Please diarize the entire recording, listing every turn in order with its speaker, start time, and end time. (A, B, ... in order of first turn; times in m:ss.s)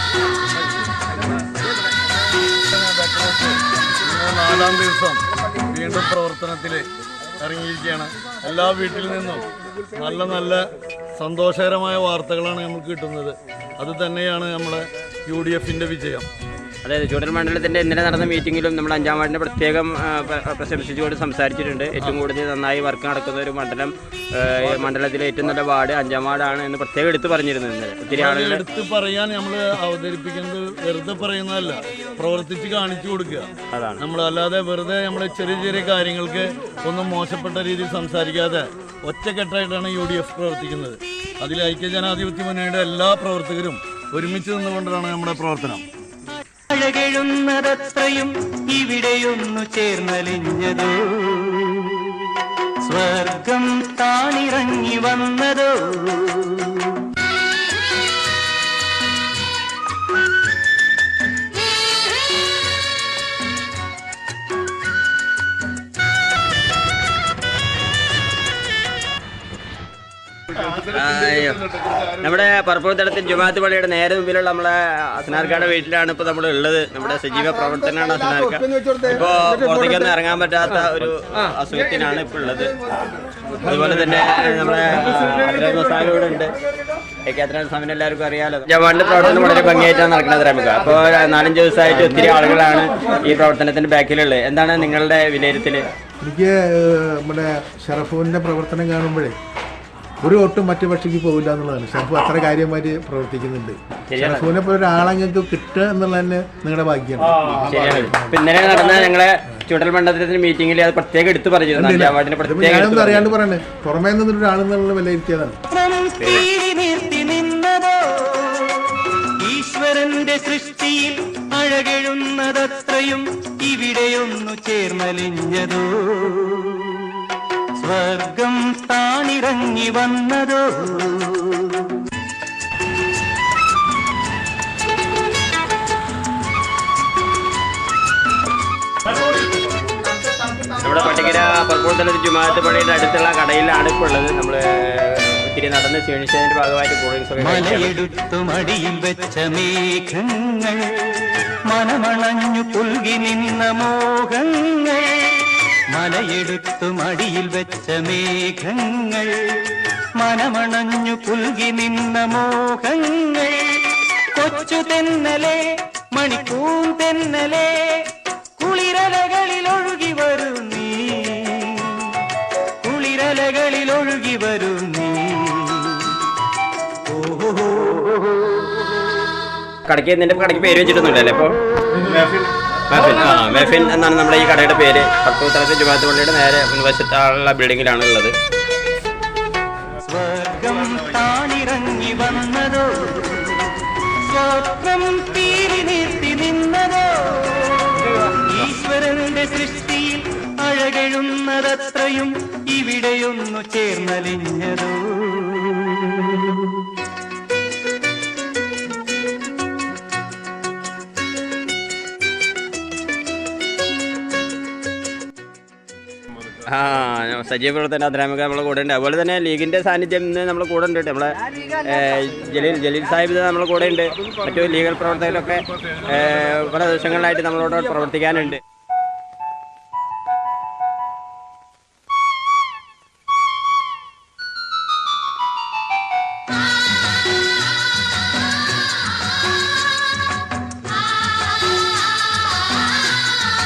0:02.7-0:16.3 A
0:16.8-0:28.6 B
0:28.1-0:45.8 A
0:33.7-0:34.0 B
0:46.7-0:52.2 C
0:52.8-0:57.0 C
1:10.6-1:22.8 B
1:18.4-1:19.1 D
1:23.6-1:26.6 B
1:27.3-1:35.9 B
1:31.9-1:32.4 D
1:36.2-1:39.4 D
1:40.2-1:48.9 D
1:44.1-1:44.5 B
1:47.6-1:53.3 B
1:51.8-1:55.6 D
1:55.7-2:07.2 C
2:07.8-2:11.9 C
2:20.7-2:27.9 B
2:27.4-2:52.2 C
2:52.8-2:56.2 C
2:57.1-2:58.4 C
2:59.9-3:08.3 B
3:10.0-3:26.2 C
3:36.7-3:48.6 B